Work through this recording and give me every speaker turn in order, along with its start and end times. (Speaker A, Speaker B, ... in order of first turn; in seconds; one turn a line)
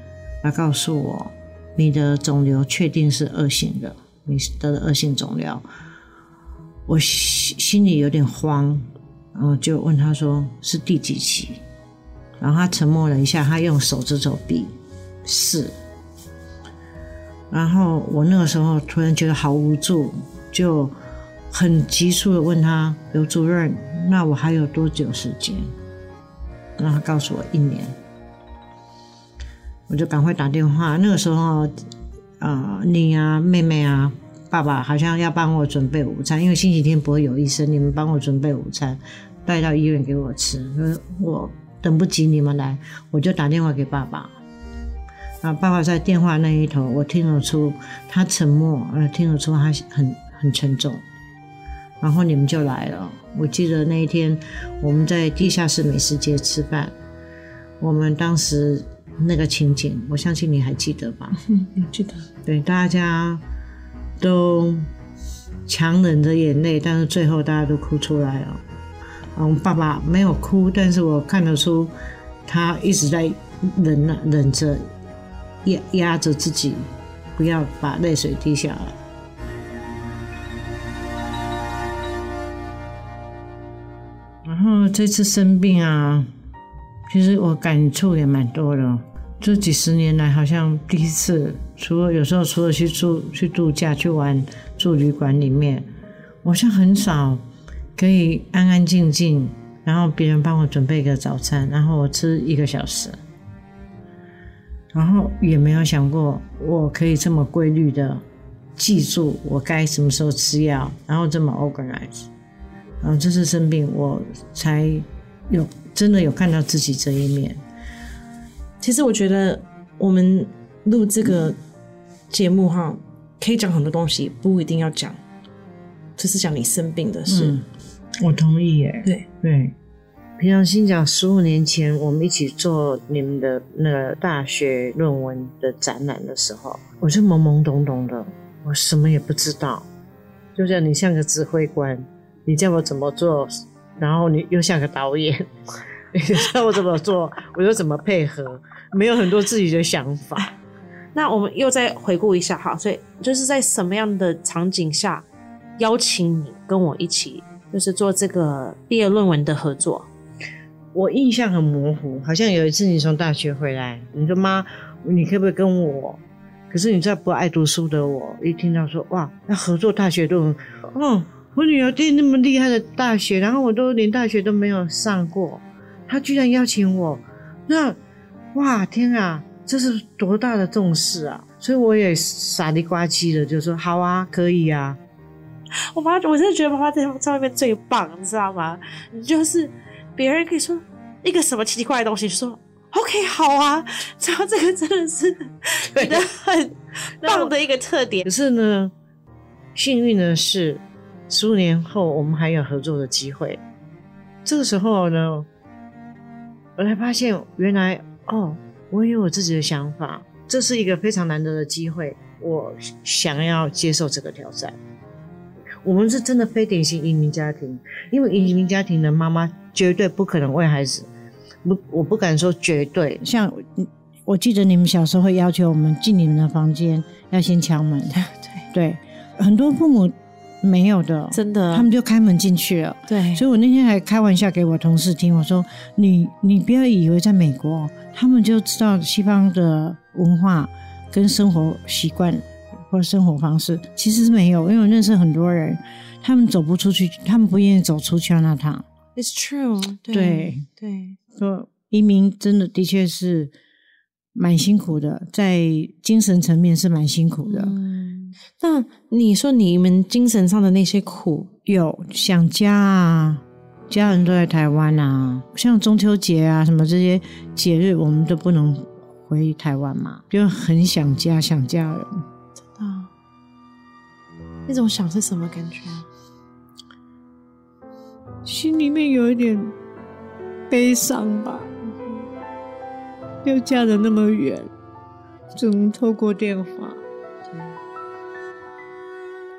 Speaker A: 0.4-5.7
Speaker A: 6.9-11.6
Speaker A: 12.4-15.8
Speaker A: 17.5-20.9
Speaker A: 21.5-25.7
Speaker A: 26.8-28.0
Speaker A: 29.9-31.9
Speaker A: 32.4-44.3
Speaker A: 45.4-51.0
Speaker A: 52.0-56.9
Speaker A: 57.8-61.4
Speaker B: 61.6-62.3
Speaker A: 62.5-63.4
Speaker A: 64.2-64.9
Speaker A: 65.7-68.6
Speaker A: 69.3-71.9
Speaker A: 72.5-74.9
Speaker A: 75.6-79.0
Speaker A: 84.4-86.3
Speaker A: 87.1-95.9
Speaker A: 96.4-97.4
Speaker A: 98.0-103.2
Speaker A: 104.9-108.2
Speaker A: 108.8-112.3
Speaker A: 113.0-117.6
Speaker B: 118.8-121.6
Speaker B: 122.3-125.2
Speaker B: 126.2-127.6
Speaker A: 127.3-127.7
Speaker A: 128.2-129.8
Speaker A: 130.4-139.9
Speaker A: 140.6-145.6
Speaker A: 146.1-150.5
Speaker B: 151.2-155.3
Speaker B: 155.8-160.1
Speaker A: 160.9-178.0
Speaker A: 178.5-185.0
Speaker B: 185.8-198.3
Speaker A: 195.9-196.3
Speaker A: 197.2-197.5
Speaker A: 198.2-198.9
Speaker A: 199.8-203.6
Speaker A: 204.4-205.5
Speaker A: 206.8-214.8
Speaker A: 215.8-221.1
Speaker A: 221.6-228.2
Speaker B: 228.2-228.6
Speaker A: 228.7-248.9
Speaker B: 231.3-231.9
Speaker B: 233.1-233.4
Speaker B: 249.2-251.2
Speaker A: 250.1-250.7
Speaker A: 251.3-253.5
Speaker A: 254.3-257.8
Speaker B: 257.4-261.5
Speaker A: 261.7-272.3
Speaker B: 272.8-273.1
Speaker B: 274.7-276.1
Speaker A: 278.4-279.8
Speaker A: 280.7-281.7
Speaker A: 283.4-284.7
Speaker A: 285.5-287.0